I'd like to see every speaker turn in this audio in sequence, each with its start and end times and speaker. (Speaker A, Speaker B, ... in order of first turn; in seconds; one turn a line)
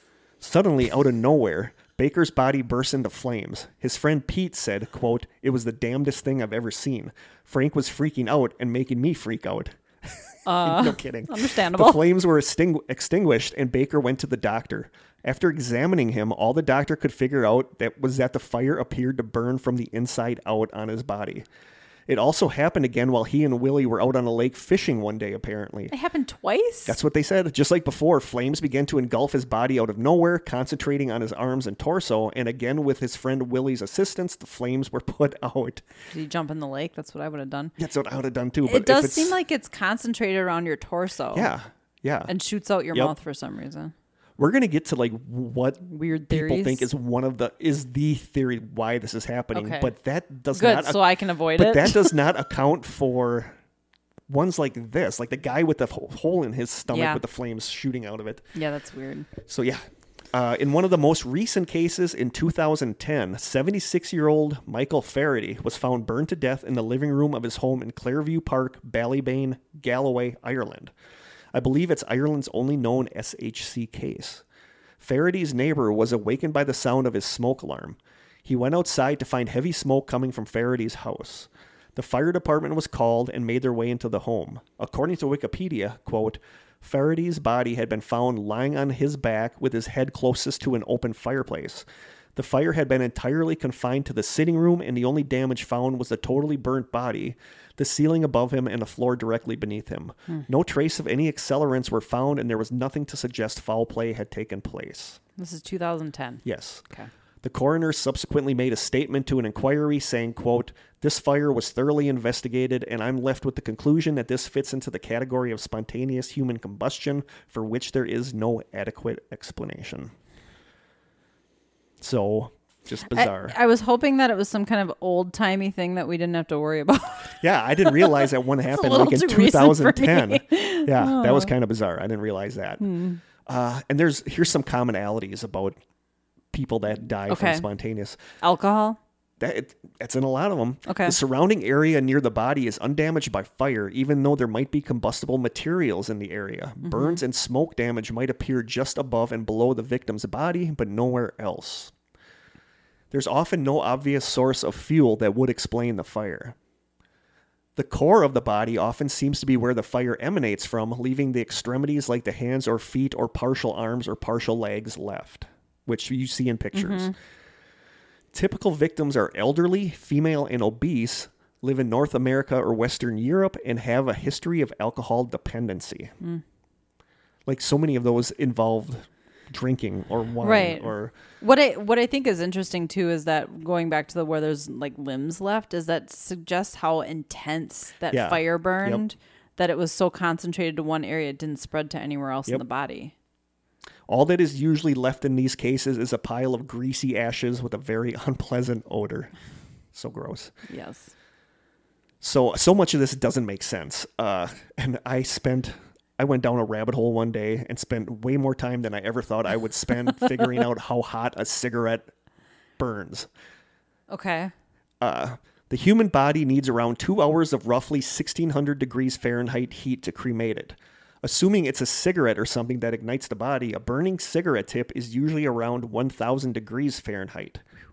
Speaker A: 0.4-21.4
Speaker B: 10.4-12.0
Speaker A: 22.1-25.9
Speaker B: 25.9-27.0
Speaker A: 26.9-35.8
Speaker B: 36.1-37.7
Speaker A: 37.8-39.3
Speaker B: 38.6-41.5
Speaker A: 41.3-42.3
Speaker B: 42.3-43.9
Speaker A: 44.4-53.5
Speaker B: 45.9-46.9
Speaker B: 49.5-49.9
Speaker B: 50.5-52.1
Speaker A: 54.3-58.5
Speaker B: 56.9-57.2
Speaker B: 58.5-59.3
Speaker A: 59.4-59.8
Speaker A: 60.3-70.9
Speaker A: 71.5-74.4
Speaker A: 75.0-105.2
Speaker B: 105.4-107.1
Speaker A: 106.4-106.8
Speaker A: 107.4-120.1
Speaker A: 122.0-123.5
Speaker B: 123.0-131.5
Speaker A: 127.4-132.8
Speaker B: 132.8-133.2
Speaker A: 133.4-135.8
Speaker A: 136.5-138.2
Speaker B: 137.3-137.7
Speaker B: 138.4-139.0
Speaker A: 139.4-151.9
Speaker B: 140.9-141.2
Speaker B: 146.8-147.2
Speaker A: 153.1-156.6
Speaker A: 157.8-167.1
Speaker B: 166.7-167.1
Speaker A: 168.3-176.1
Speaker A: 177.5-181.1
Speaker B: 180.4-193.1
Speaker A: 188.1-189.0
Speaker A: 194.1-199.3
Speaker A: 199.9-200.5
Speaker B: 200.7-201.1
Speaker A: 202.2-212.1
Speaker A: 212.8-213.3
Speaker B: 214.1-214.5
Speaker A: 215.0-227.6